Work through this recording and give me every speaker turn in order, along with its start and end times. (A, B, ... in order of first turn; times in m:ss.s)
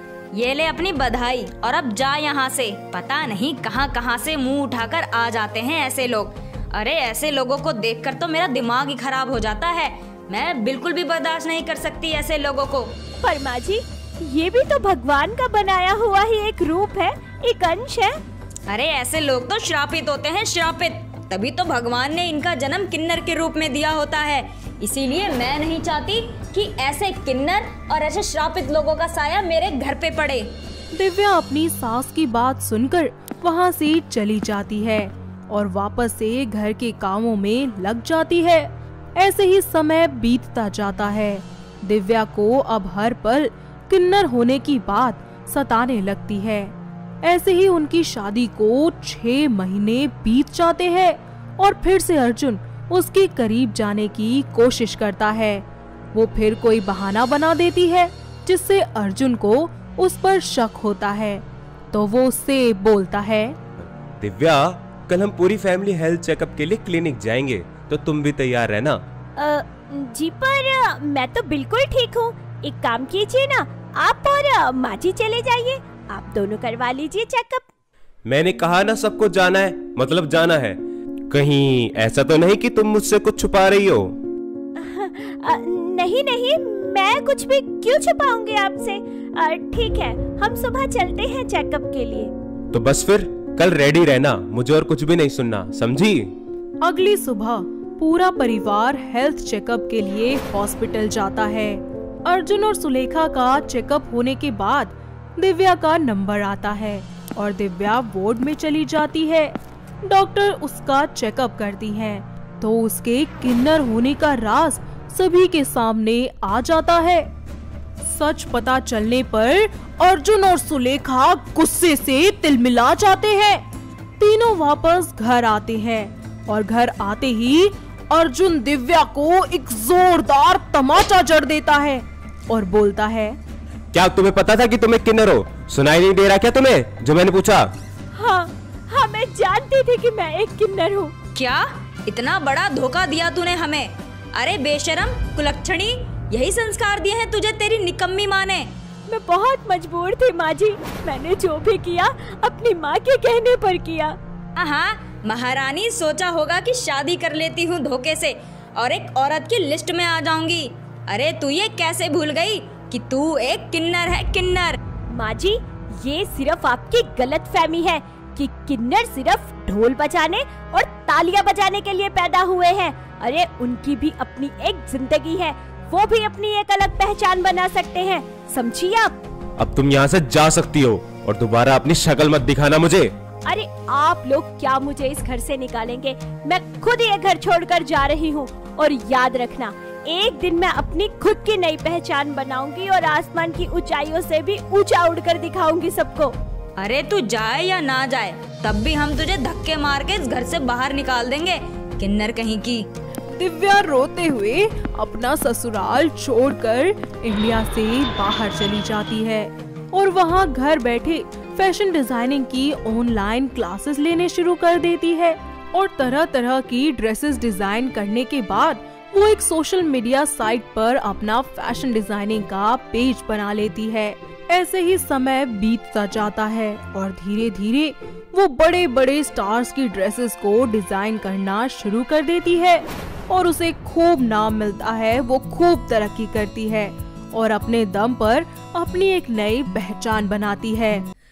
0:00.3-0:12.9 A
0:13.2-0:18.2 B
0:18.7-0:30.5 A
0:30.9-1:03.6 C
1:03.8-1:09.0 D
1:09.4-1:17.6 B
1:18.2-1:20.8 D
1:21.3-1:24.1 D
1:24.8-1:32.3 B
1:32.7-1:36.3 D
1:36.8-1:49.5 C
1:50.0-1:57.3 C
1:58.0-2:03.6 C
2:04.2-2:13.4 C
2:13.9-2:17.7 D
2:18.1-2:21.1 B
2:21.3-2:28.7 A
2:29.1-2:34.2 B
2:34.6-2:44.8 A
2:45.1-2:59.2 B
2:59.6-3:03.1 D
3:03.4-3:16.3 B
3:16.8-3:22.8 A
3:23.3-4:01.0 C